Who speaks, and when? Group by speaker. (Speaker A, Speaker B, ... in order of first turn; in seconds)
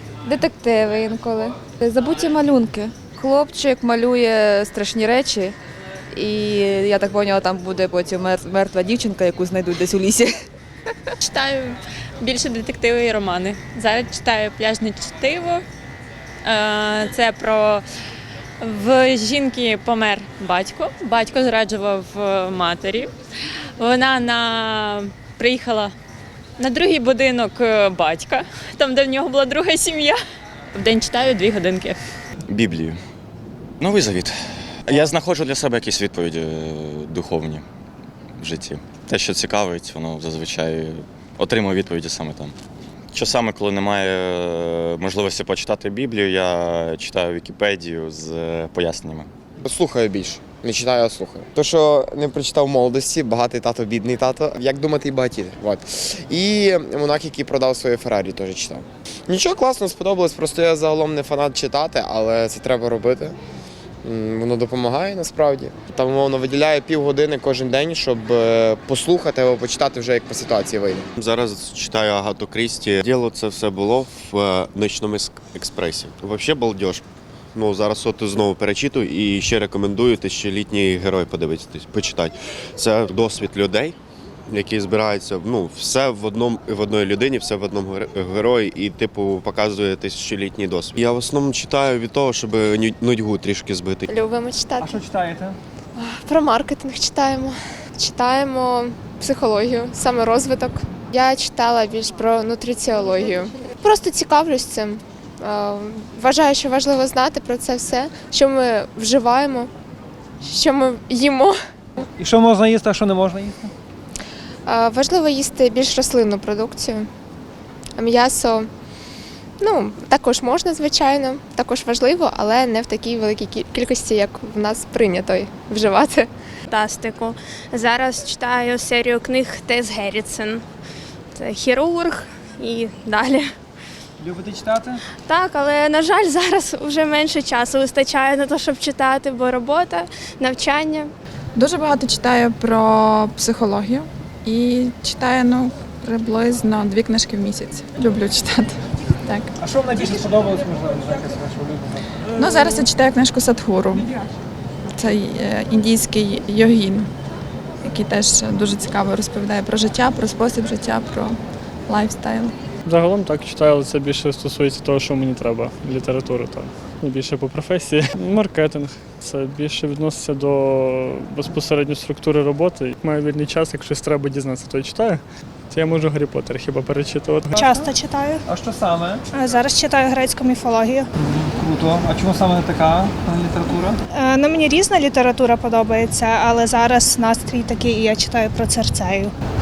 Speaker A: 0.2-5.5, 6.1-10.4
Speaker B: 11.2-15.6, 16.4-17.8, 18.6-23.1, 23.8-25.9, 26.6-30.2, 30.7-32.0
Speaker C: 32.5-33.0, 33.8-37.6, 38.4-42.5, 43.1-49.3
Speaker D: 49.6-63.4, 64.0-71.1
Speaker E: 71.2-77.0, 77.5-84.0, 84.5-94.1
Speaker F: 94.1-95.0, 96.0-109.7, 110.4-111.5, 114.7-117.1, 118.0-118.7, 119.6-126.3
Speaker G: 94.8-95.6, 112.2-113.7, 134.2-135.0, 149.6-152.2, 177.5-177.9, 178.4-179.2, 181.2-184.0
Speaker H: 126.7-130.6, 131.3-133.5, 135.2-141.1
Speaker I: 141.6-148.7, 152.3-154.1, 155.0-157.1, 157.8-161.4, 161.9-162.5
Speaker J: 162.8-177.6
Speaker K: 177.6-178.4, 179.3-181.1, 184.1-189.3